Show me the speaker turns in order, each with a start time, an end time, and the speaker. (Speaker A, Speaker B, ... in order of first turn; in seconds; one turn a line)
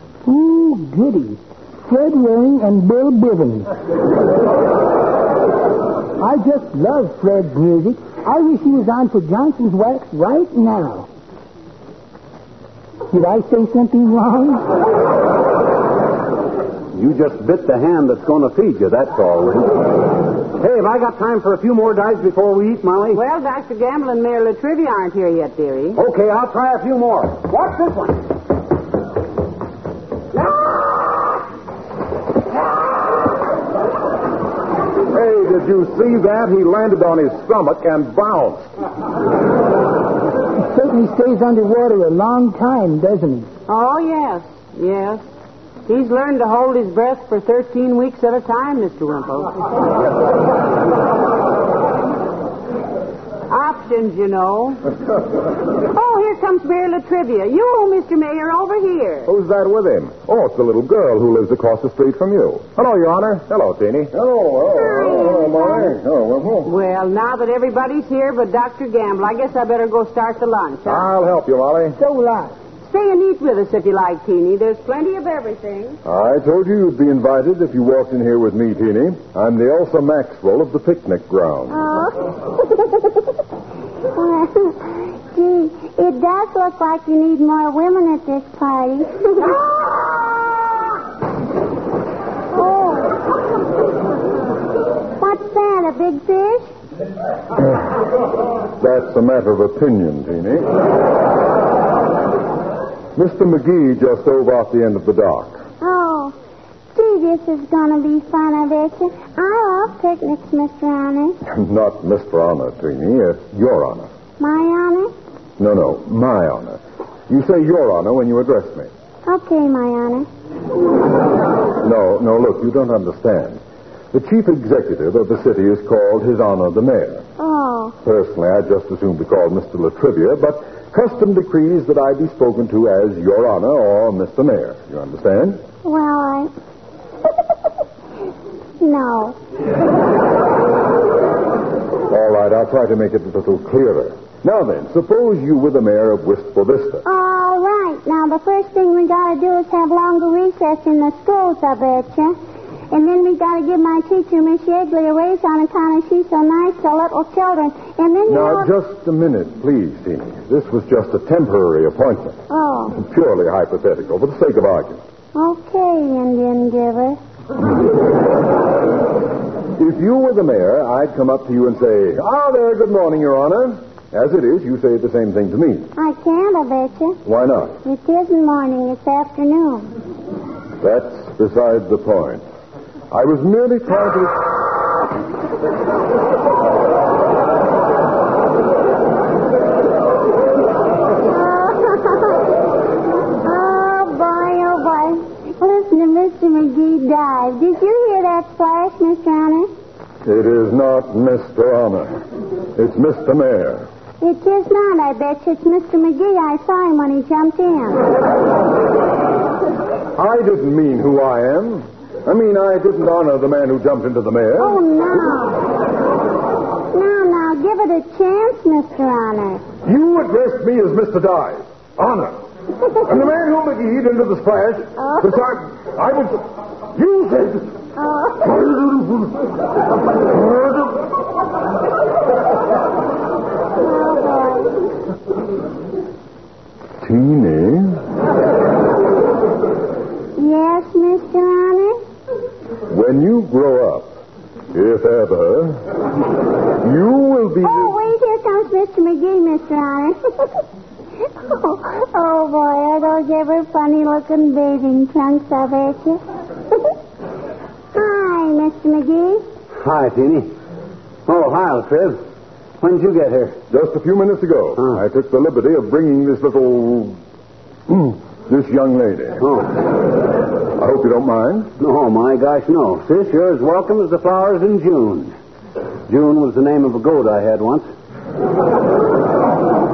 Speaker A: 0.2-3.7
Speaker A: 6.2-11.1
Speaker A: 13.1-14.7
Speaker B: 16.9-19.9
Speaker B: 20.5-23.2
Speaker C: 23.1-26.0
Speaker B: 25.9-28.2
Speaker D: 35.1-38.7
Speaker A: 40.6-43.5
Speaker C: 43.7-45.2
Speaker C: 45.9-49.6
Speaker C: 53.5-54.8
Speaker C: 55.8-59.3
Speaker D: 59.2-66.7
Speaker E: 64.7-66.0
Speaker C: 66.6-71.1
Speaker D: 70.8-72.0
Speaker A: 72.0-72.5
Speaker C: 72.8-76.0
Speaker D: 76.0-81.9
Speaker E: 81.7-82.2
Speaker E: 84.1-90.1
Speaker E: 92.5-93.2
Speaker E: 95.2-96.7
Speaker D: 98.8-100.7
Speaker D: 103.1-105.6
Speaker E: 105.8-106.3
Speaker E: 106.9-111.4
Speaker D: 111.4-114.1
Speaker E: 114.4-115.1
Speaker D: 115.6-118.9
Speaker E: 119.2-120.3
Speaker D: 121.8-123.6
Speaker D: 124.1-127.2
Speaker E: 127.4-128.0
Speaker D: 128.0-135.6
Speaker E: 135.8-136.5
Speaker E: 138.8-139.4
Speaker D: 142.1-147.0
Speaker E: 147.0-152.4
Speaker E: 152.9-158.7
Speaker D: 158.3-162.4
Speaker E: 162.5-163.0
Speaker D: 162.9-165.0
Speaker E: 165.3-167.2
Speaker D: 169.8-175.9
Speaker E: 175.9-177.2
Speaker D: 177.2-177.8
Speaker E: 177.8-179.9
Speaker D: 180.8-182.4
Speaker D: 183.1-184.5
Speaker E: 191.2-192.5
Speaker E: 193.4-199.7
Speaker D: 200.2-202.2
Speaker D: 202.7-203.9
Speaker E: 204.2-208.1
Speaker D: 210.2-214.8
Speaker E: 214.6-215.7
Speaker E: 216.9-219.6
Speaker D: 219.8-227.8
Speaker E: 228.0-228.5
Speaker D: 228.4-229.2
Speaker D: 230.3-230.9
Speaker E: 233.8-234.8
Speaker D: 237.0-238.0
Speaker E: 240.3-242.0
Speaker D: 242.9-244.1
Speaker D: 244.7-245.9
Speaker D: 246.8-248.0
Speaker E: 247.6-250.6
Speaker E: 251.4-256.2
Speaker E: 257.9-259.4
Speaker B: 259.8-260.5
Speaker B: 261.3-262.2
Speaker B: 262.8-263.6
Speaker D: 263.7-267.2
Speaker D: 267.9-269.5
Speaker B: 269.4-269.7
Speaker D: 270.7-271.7
Speaker B: 271.8-275.3
Speaker B: 276.1-277.9